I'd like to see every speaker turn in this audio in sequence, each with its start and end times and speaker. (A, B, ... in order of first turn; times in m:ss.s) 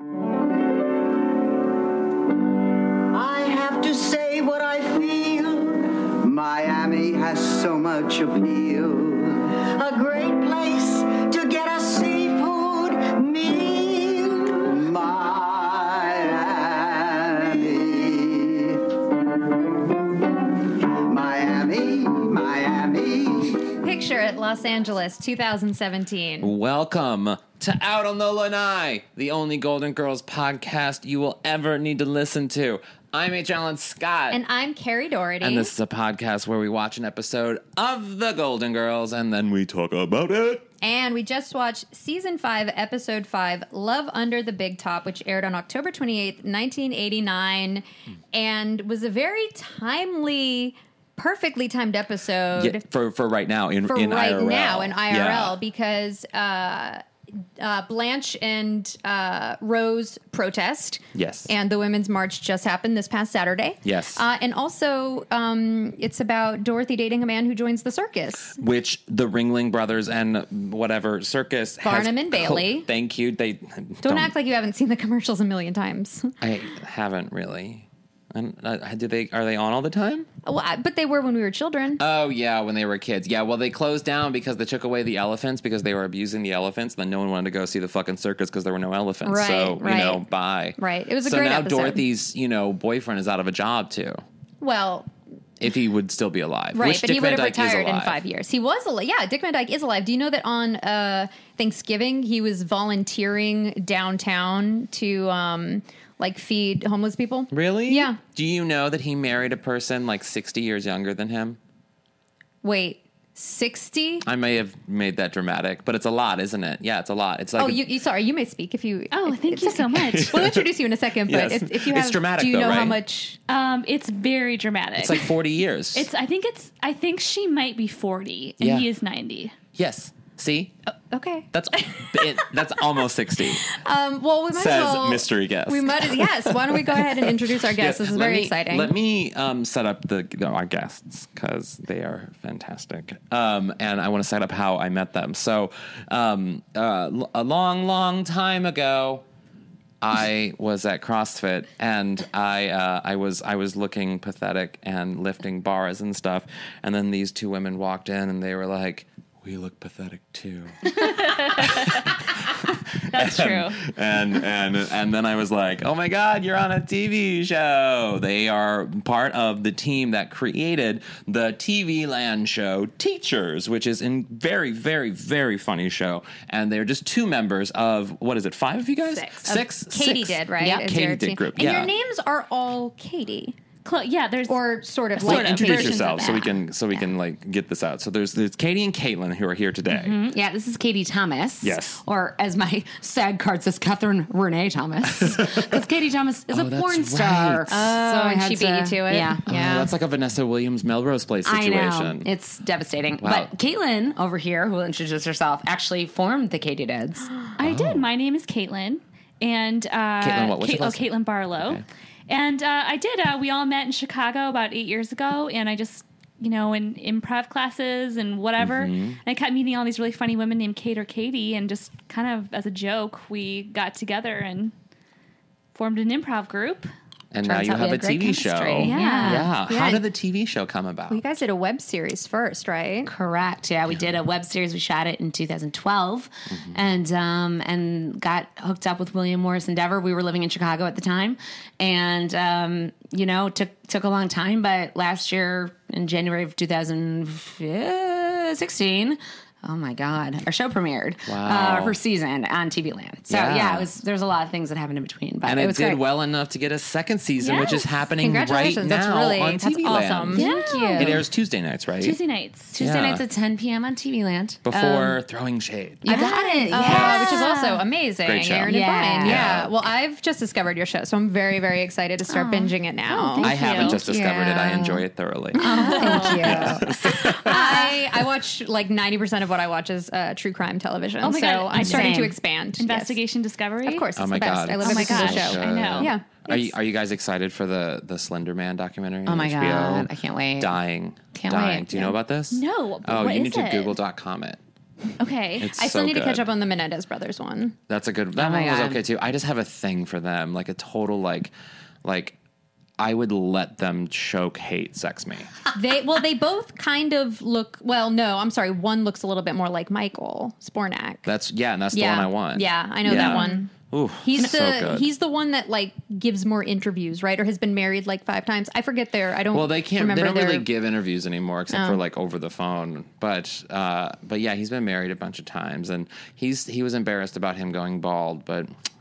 0:03.1-0:19.0 A
0:20.6-0:23.8 A
0:23.8-0:26.5 B
0:26.4-0:34.4 C
0:34.3-0:35.7 B
0:35.4-0:40.7 C
0:40.8-0:52.8 B
0:52.6-0:55.6 C
0:53.9-0:57.0 B
0:57.6-1:08.6 B
1:01.1-1:01.5 C
1:03.8-1:04.2 C
1:08.5-1:14.4 C
1:11.8-1:12.9 B
1:14.0-1:16.3 B
1:16.4-1:20.3 C
1:20.4-1:22.0 B
1:22.0-1:34.2 C
1:29.2-1:30.2 B
1:30.8-1:32.0 B
1:34.6-1:35.1 B
1:35.6-1:38.2 C
1:36.7-1:48.2 B
1:47.5-1:51.6 C
1:52.6-1:54.3 B
1:54.2-1:57.8 C
1:57.6-2:03.4 B
1:59.1-2:00.5 D
2:00.1-2:00.7 C
2:01.2-2:03.0 C
2:03.5-2:05.3 D
2:05.0-2:06.1 C
2:05.9-2:09.6 D
2:08.6-2:08.9 C
2:09.8-2:10.8 C
2:11.1-2:12.4 B
2:11.5-2:13.7 C
2:13.6-2:18.9 B
2:14.5-2:29.3 C
2:30.0-3:01.9 C
2:40.9-2:42.1 D
2:43.1-2:43.9 D
2:59.1-3:03.6 B
3:00.6-3:00.9 E
3:03.8-3:06.6 D
3:04.5-3:06.2 B
3:05.2-3:10.2 C
3:09.9-3:19.9 E
3:11.6-3:12.0 C
3:15.2-3:15.8 C
3:16.5-3:17.7 C
3:17.7-3:19.5 B
3:19.5-3:22.3 C
3:21.4-3:27.3 E
3:23.2-3:23.5 C
3:27.6-3:44.7 D
3:27.6-3:28.1 C
3:30.2-3:31.9 C
3:38.6-3:39.2 C
3:45.7-3:46.9 D
3:47.3-3:51.2 C
3:47.4-3:49.5 E
3:48.8-3:49.5 D
3:49.7-3:50.0 B
3:51.1-3:53.1 B
3:53.1-4:16.0 E
3:56.5-3:56.8 C
4:11.3-4:12.0 C
4:13.3-4:13.9 C
4:15.4-4:22.2 C
4:17.4-4:17.8 D
4:18.2-4:21.1 B
4:20.4-4:21.2 D
4:20.4-4:21.1 E
4:22.0-4:22.8 D
4:22.7-4:25.2 E
4:22.8-4:23.2 C
4:24.6-4:26.1 C
4:26.0-4:27.6 E
4:26.1-4:33.5 B
4:26.7-4:27.8 D
4:26.8-4:27.3 C
4:28.2-4:29.7 C
4:28.7-4:29.5 E
4:32.3-4:32.7 E
4:33.1-4:34.0 D
4:33.3-4:36.9 E
4:33.4-4:37.8 C
4:35.6-4:43.2 B
4:35.8-4:37.8 D
4:41.2-4:44.1 D
4:41.7-4:42.4 E
4:43.8-4:46.7 B
4:44.2-4:54.6 C
4:44.8-4:46.1 D
4:49.3-4:50.7 E
4:51.3-4:52.2 E
4:52.5-4:54.0 D
4:55.2-4:55.7 D
4:55.6-4:56.5 C
4:55.7-4:57.8 B
4:57.9-5:01.5 C
4:58.4-4:59.0 E
5:02.0-5:02.4 C
5:03.0-5:05.5 C
5:05.8-5:11.3 B
5:11.2-5:15.1 C
5:11.9-5:20.7 B
5:13.1-5:13.6 D
5:19.5-5:28.7 C
5:21.7-5:22.0 B